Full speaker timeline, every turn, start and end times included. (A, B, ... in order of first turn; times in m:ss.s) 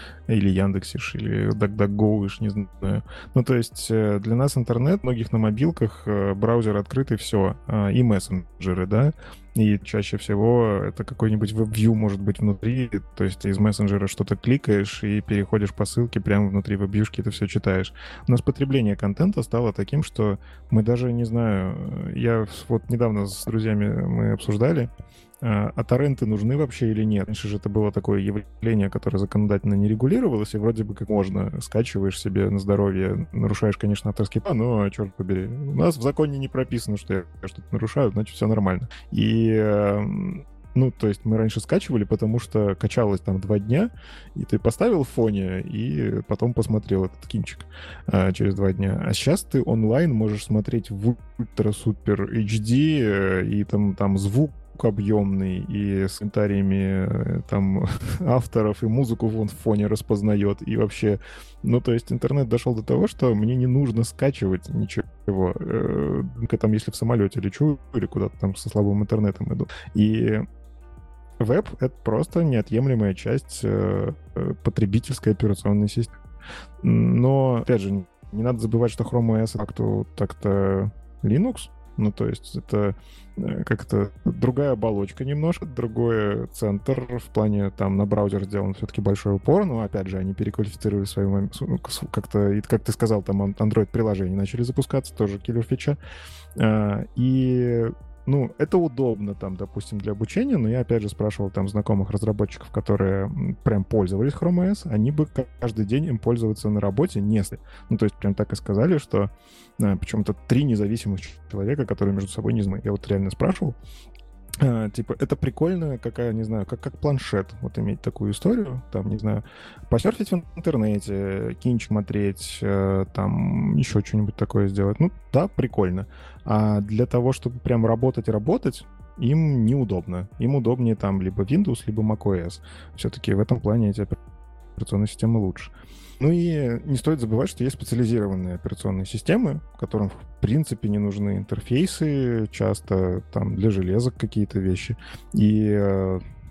0:00.3-1:10.5 A
1:11.4-1:16.2 A
1:16.8-1:36.0 A
1:36.6-1:53.8 A
1:54.6-2:14.2 A
2:14.8-2:26.2 A